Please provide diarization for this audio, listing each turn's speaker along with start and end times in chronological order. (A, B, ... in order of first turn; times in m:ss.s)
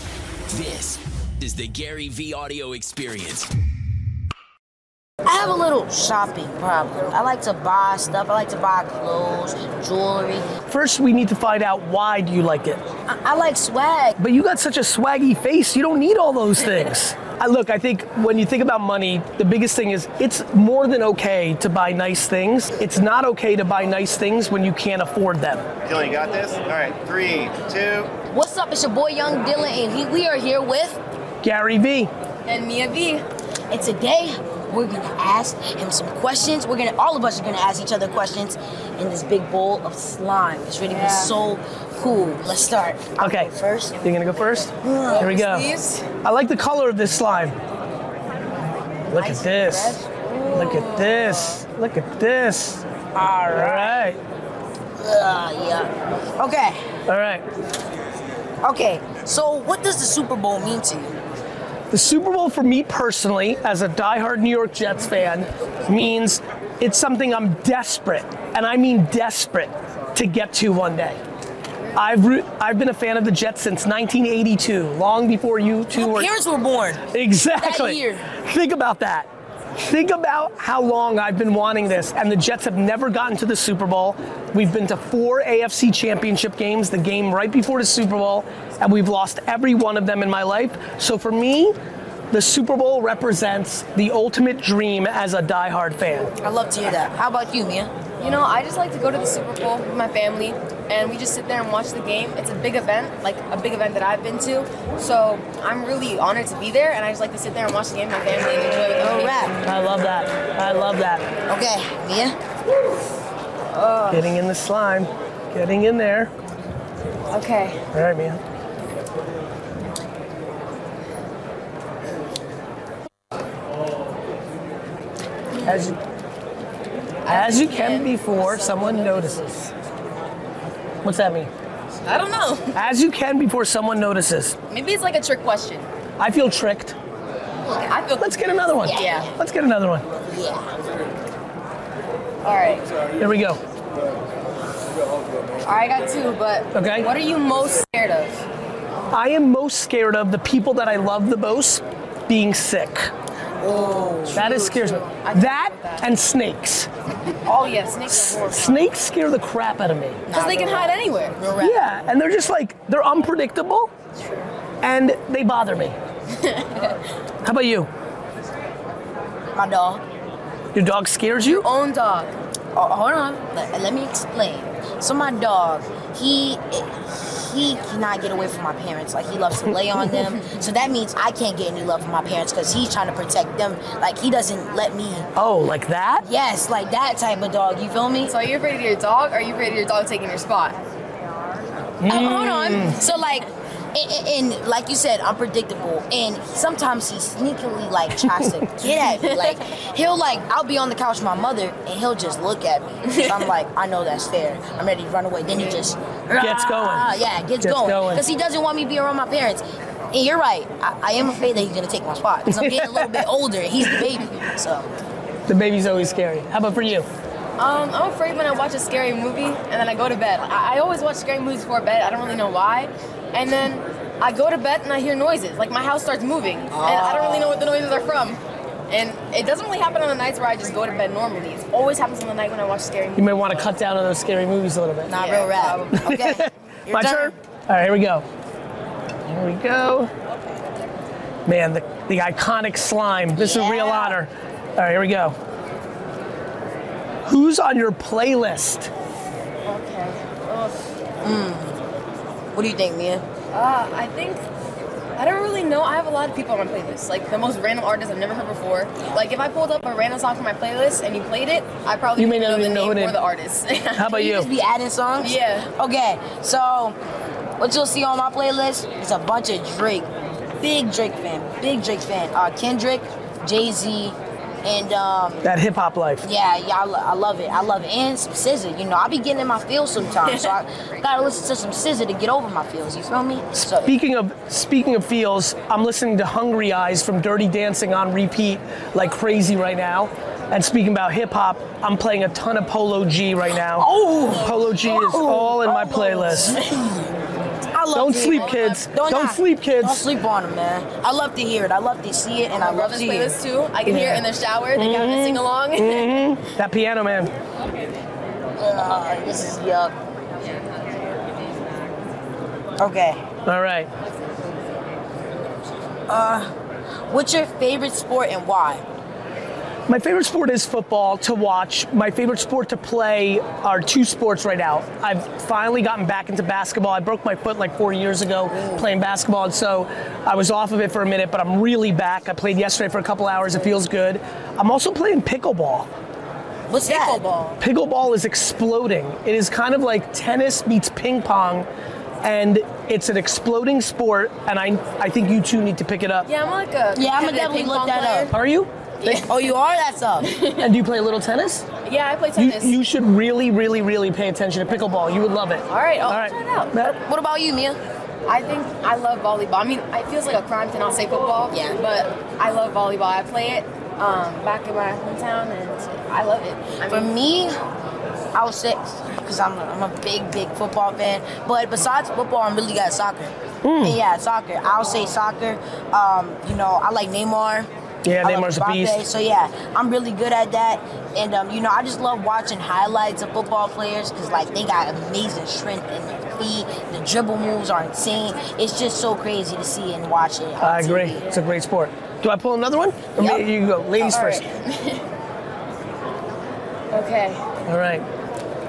0:00.5-0:03.5 A
0:05.2-0:10.5 B
0:10.7-0:12.8 C
0:13.1-0:14.2 B
0:14.2-0:25.7 C
0:25.8-0:28.1 D
0:28.3-0:31.0 B
0:31.4-0:32.1 C
0:32.4-0:33.2 E
0:33.7-0:44.0 B
0:40.9-0:41.4 E
0:43.2-0:43.5 C
0:44.0-0:45.7 C
0:44.8-0:45.3 B
0:45.1-0:46.1 E
0:46.2-0:47.6 C
0:49.1-0:50.0 C
0:49.2-0:51.6 E
0:50.5-0:52.8 C
0:53.1-0:54.1 B
0:53.5-0:54.2 C
0:55.0-0:56.8 B
0:57.1-0:57.4 C
0:58.6-1:01.2 B
1:01.9-1:11.2 C
1:11.9-1:16.3 C
1:15.9-1:17.0 B
1:17.1-1:31.8 C
1:17.6-1:18.3 B
1:32.3-1:36.3 C
1:36.4-1:37.9 B
1:38.2-1:49.6 E
1:49.0-1:49.6 B
1:49.6-1:51.3 C
1:51.5-1:52.4 B
1:53.7-1:54.3 E
1:54.1-1:56.3 C
1:57.3-1:57.8 E
1:57.9-1:58.4 C
2:05.6-2:06.0 C
2:07.2-2:09.4 E
2:07.3-2:09.7 C
2:11.0-2:11.5 C
2:12.0-2:12.8 E
2:12.7-2:14.6 C
2:14.7-2:15.9 E
2:16.2-2:17.0 C
2:17.8-2:19.3 E
2:18.2-2:20.1 C
2:18.8-2:19.3 B
2:20.3-2:20.7 B
2:22.4-2:22.9 E
2:23.2-2:23.6 C
2:25.6-2:28.4 E
2:26.7-2:27.1 C
2:29.1-2:33.1 C
2:33.6-2:34.4 B
2:34.2-2:36.1 E
2:34.3-2:36.9 C
2:37.4-2:38.9 E
2:38.1-2:40.2 C
2:40.3-2:41.8 B
2:40.3-2:41.4 E
2:41.6-2:43.9 C
2:44.2-2:44.5 E
2:44.8-2:46.0 C
2:46.3-2:47.0 E
2:47.4-2:47.9 C
2:49.5-2:50.0 B
2:50.7-2:51.7 C
2:51.4-2:52.4 E
2:52.8-3:05.3 B
3:05.4-3:06.2 C
3:06.2-3:08.3 B
3:08.2-3:10.8 E
3:12.0-3:13.0 C
3:12.1-3:34.9 B
3:18.2-3:18.5 C
3:18.9-3:19.6 E
3:26.4-3:28.2 C
3:32.5-3:33.3 C
3:35.5-3:37.1 C
3:37.6-3:53.7 E
3:46.7-3:47.7 B
3:53.2-3:55.1 C
3:55.1-3:56.2 E
3:55.1-3:57.3 B
3:56.0-3:58.2 C
3:59.3-4:00.1 C
4:01.5-4:05.4 C
4:03.4-4:04.2 B
4:07.3-4:08.9 C
4:09.6-4:10.8 E
4:11.2-4:11.8 B
4:12.5-4:13.2 B
4:13.5-4:14.4 E
4:15.2-4:24.2 E
4:22.2-4:23.2 C
4:24.0-4:24.5 C
4:24.1-4:27.0 B
4:25.2-4:25.7 E
4:27.6-4:35.5 B
4:35.4-4:36.3 C
4:36.2-4:44.0 B
4:40.2-4:40.6 E
4:43.6-4:56.6 C
4:53.8-4:57.0 B
4:57.7-5:03.4 B
4:57.9-5:00.1 C
4:58.2-4:58.8 E
5:02.5-5:06.2 E
5:03.9-5:07.3 C
5:08.6-5:10.0 B
5:10.6-5:11.6 E
5:12.8-5:13.2 B
5:13.4-5:13.9 C
5:16.1-5:16.5 B
5:17.1-5:18.8 B
5:19.9-5:35.9 C
5:28.6-5:28.9 B
5:36.7-5:37.2 B
5:36.8-5:37.6 E
5:37.6-5:41.7 C
5:42.2-5:46.3 C
5:46.2-5:48.3 E
5:46.9-5:48.3 B
5:48.3-5:49.3 C
5:49.0-5:49.4 E
5:49.2-5:50.3 B
5:50.2-5:50.7 E
5:50.6-5:51.7 C
5:51.8-5:52.8 E
5:52.4-5:57.0 C
5:55.7-5:56.9 E
5:57.0-5:57.8 B
5:58.3-6:07.1 E
6:01.5-6:01.8 B
6:06.9-6:07.6 B
6:08.3-6:17.7 B
6:13.6-6:14.0 C
6:18.0-6:19.0 C
6:18.2-6:31.3 B
6:30.6-6:34.4 C
6:34.0-6:35.1 E
6:36.9-6:37.4 E
6:37.7-6:38.1 C